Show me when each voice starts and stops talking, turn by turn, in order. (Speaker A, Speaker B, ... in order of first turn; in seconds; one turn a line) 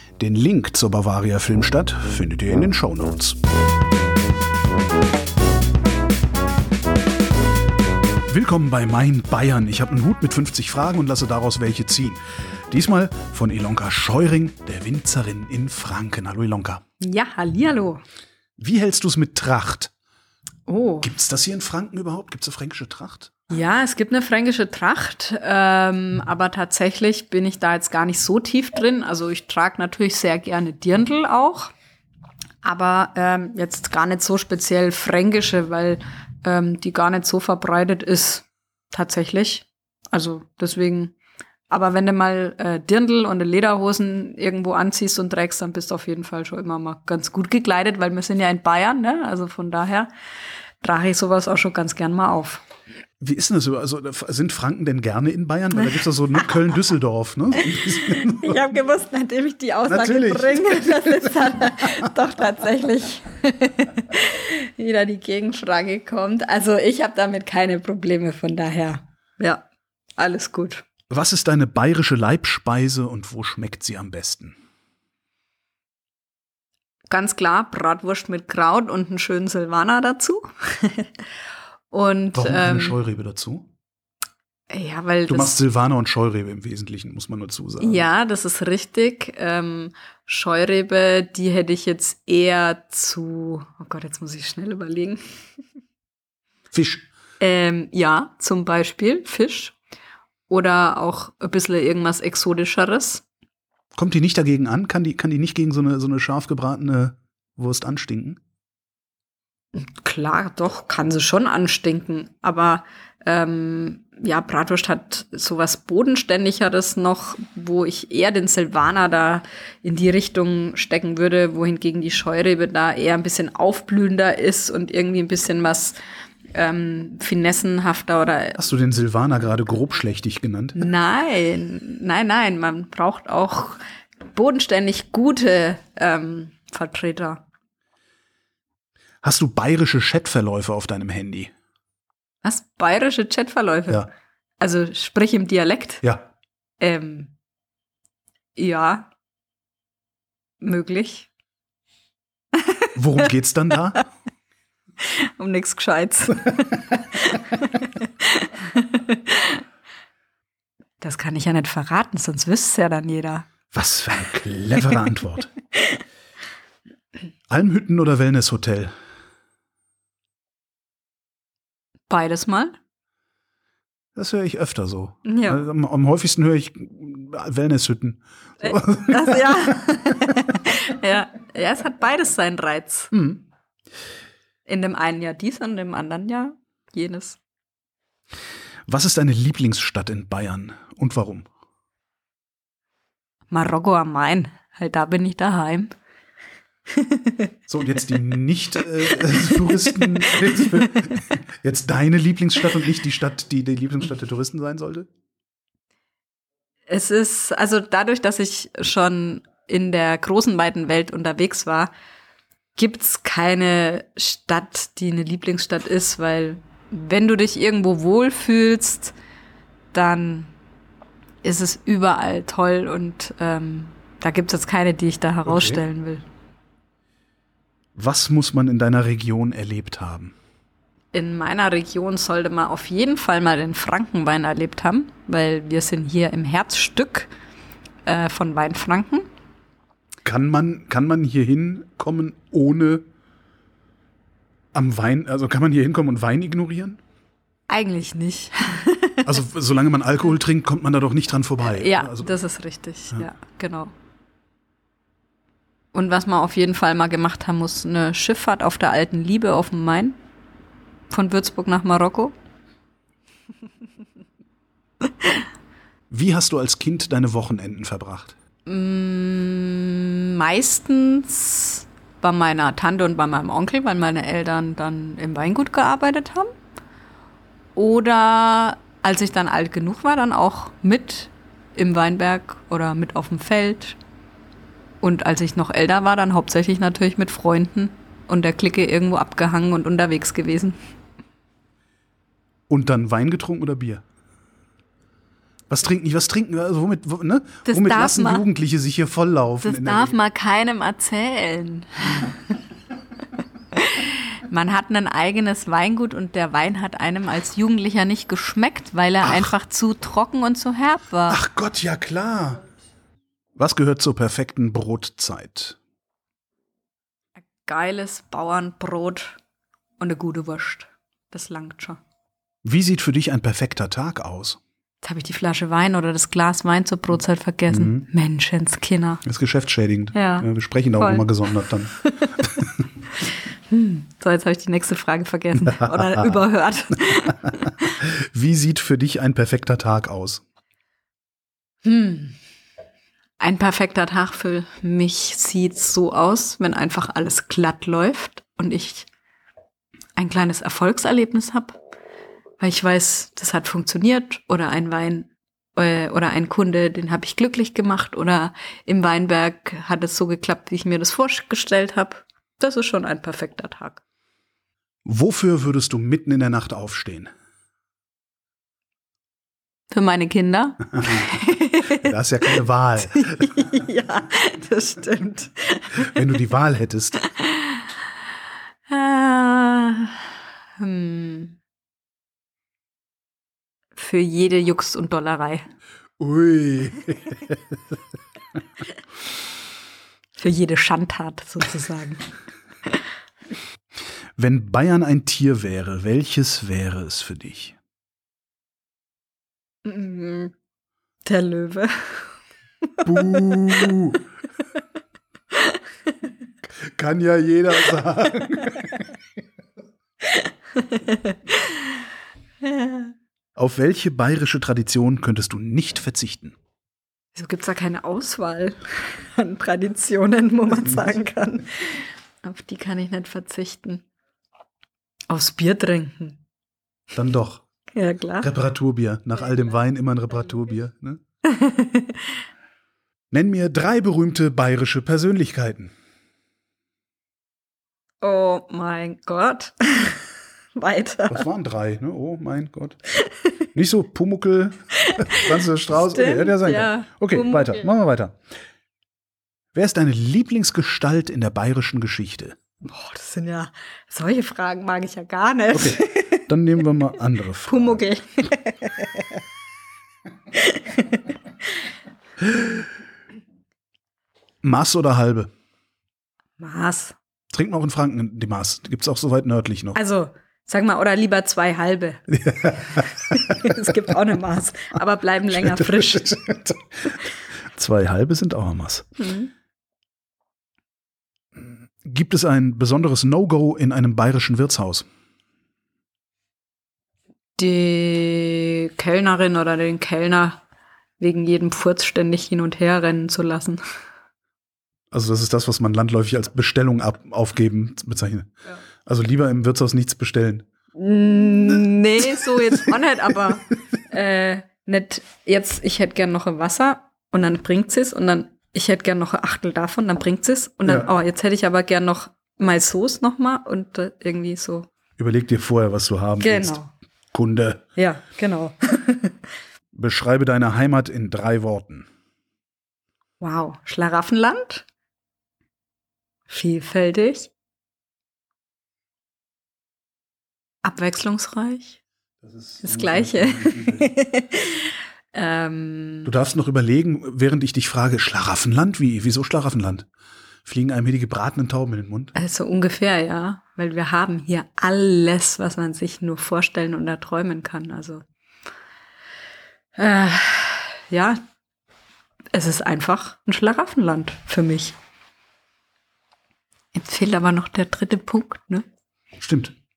Speaker A: 0.2-3.4
Speaker A: 8.3-12.2
Speaker A: 12.7-16.8
Speaker B: 17.0-18.0
Speaker A: 18.6-19.9
Speaker B: 20.7-21.1
Speaker A: 21.0-23.3
Speaker B: 23.5-31.7
Speaker B: 32.6-41.1
Speaker B: 41.7-50.1
Speaker B: 50.8-52.6
Speaker A: 53.2-58.7
Speaker B: 55.8-56.5
Speaker B: 57.6-69.7
Speaker A: 59.9-62.1
Speaker B: 70.2-70.8
Speaker A: 71.1-74.5
Speaker B: 77.1-81.2
Speaker B: 81.9-83.0
Speaker A: 82.3-83.7
Speaker B: 84.7-85.6
Speaker A: 85.3-88.0
Speaker B: 87.8-95.2
Speaker A: 96.7-97.1
Speaker B: 97.4-99.8
Speaker B: 100.5-103.2
Speaker A: 103.9-108.4
Speaker B: 109.8-126.0
Speaker B: 126.5-128.6
Speaker A: 128.6-130.8
Speaker B: 130.8-137.4
Speaker A: 139.2-141.5
Speaker B: 142.4-144.1
Speaker B: 144.6-146.0
Speaker B: 146.8-147.3
Speaker B: 148.6-149.1
Speaker B: 150.6-151.3
Speaker B: 152.5-153.2
Speaker A: 152.9-154.0
Speaker B: 155.0-159.6
Speaker B: 161.0-163.4
Speaker A: 163.7-165.5
Speaker A: 167.5-168.9
Speaker B: 172.1-172.8
Speaker A: 174.1-179.7
Speaker B: 175.2-175.6
Speaker B: 178.6-183.1
Speaker A: 183.1-183.4
Speaker B: 184.7-187.4
Speaker A: 188.9-191.5
Speaker B: 193.5-195.9
Speaker B: 196.9-197.5
Speaker A: 197.7-205.1
Speaker B: 199.1-201.2
Speaker B: 206.9-211.9
Speaker B: 212.8-219.1
Speaker B: 219.9-220.5
Speaker B: 221.4-226.2
Speaker A: 225.4-225.8
Speaker A: 227.9-230.3
Speaker B: 231.1-237.3
Speaker B: 238.1-239.2
Speaker A: 240.2-243.0
Speaker A: 244.7-247.0
Speaker B: 247.7-249.3
Speaker A: 249.2-252.3
Speaker B: 251.6-253.9
Speaker B: 255.9-260.2
Speaker B: 261.1-262.3
Speaker A: 266.1-268.4
Speaker B: 268.6-276.5
Speaker B: 277.7-284.0
Speaker B: 285.0-290.8
Speaker A: 292.7-294.0
Speaker A: 295.7-300.1
Speaker B: 297.6-298.4
Speaker B: 299.6-302.5
Speaker B: 303.7-311.4
Speaker A: 309.2-309.5
Speaker A: 311.3-312.6
Speaker A: 313.6-315.8
Speaker B: 317.4-319.4
Speaker B: 320.0-322.0
Speaker A: 322.6-324.6
Speaker B: 325.0-329.2
Speaker A: 327.7-328.1
Speaker A: 329.2-331.9
Speaker B: 330.1-332.4
Speaker B: 333.2-338.0
Speaker A: 335.7-336.3
Speaker A: 338.0-340.4
Speaker B: 341.8-342.3
Speaker B: 343.4-349.1
Speaker B: 350.1-351.8
Speaker B: 352.6-364.0
Speaker A: 365.0-367.3
Speaker B: 369.9-372.6
Speaker A: 372.0-373.5
Speaker B: 373.1-376.3
Speaker A: 376.1-377.2
Speaker B: 377.2-377.9
Speaker B: 378.9-381.6
Speaker B: 383.9-385.6
Speaker A: 386.2-387.6
Speaker B: 390.4-392.3
Speaker A: 394.4-397.8
Speaker B: 399.8-400.5
Speaker B: 401.2-402.3
Speaker A: 403.0-404.2
Speaker B: 403.1-404.1
Speaker A: 406.8-409.0
Speaker B: 410.2-411.9
Speaker B: 412.6-413.1
Speaker A: 413.6-416.6
Speaker B: 417.3-424.0
Speaker B: 425.3-426.4
Speaker A: 427.1-427.6
Speaker B: 427.9-428.5
Speaker A: 428.4-431.2
Speaker B: 431.4-432.3
Speaker A: 433.3-435.9
Speaker B: 438.2-441.4
Speaker A: 441.3-443.0
Speaker B: 443.2-443.6
Speaker A: 443.7-448.4
Speaker B: 445.0-447.9
Speaker A: 449.7-452.6
Speaker B: 452.9-456.5
Speaker A: 455.7-458.0
Speaker B: 457.6-459.4
Speaker B: 460.5-461.3
Speaker A: 464.6-465.5
Speaker B: 466.6-467.1
Speaker A: 467.5-470.0
Speaker B: 469.9-476.4
Speaker A: 472.4-473.0
Speaker A: 475.5-477.2
Speaker A: 477.7-479.1
Speaker B: 479.2-479.5
Speaker A: 481.6-485.1
Speaker B: 487.6-490.6
Speaker B: 491.2-493.8
Speaker A: 495.1-498.5
Speaker A: 499.1-500.6
Speaker B: 500.9-514.9
Speaker A: 515.2-516.8
Speaker B: 516.4-516.9
Speaker A: 517.3-517.8
Speaker B: 518.0-519.4
Speaker A: 519.9-522.1
Speaker B: 523.4-524.9
Speaker B: 526.5-527.5
Speaker B: 530.8-532.0
Speaker A: 532.4-534.1
Speaker B: 532.8-536.3
Speaker A: 536.2-540.1
Speaker A: 540.6-542.4
Speaker B: 542.4-548.2
Speaker B: 550.0-551.4
Speaker B: 552.5-555.0
Speaker B: 556.9-558.8
Speaker A: 559.4-559.7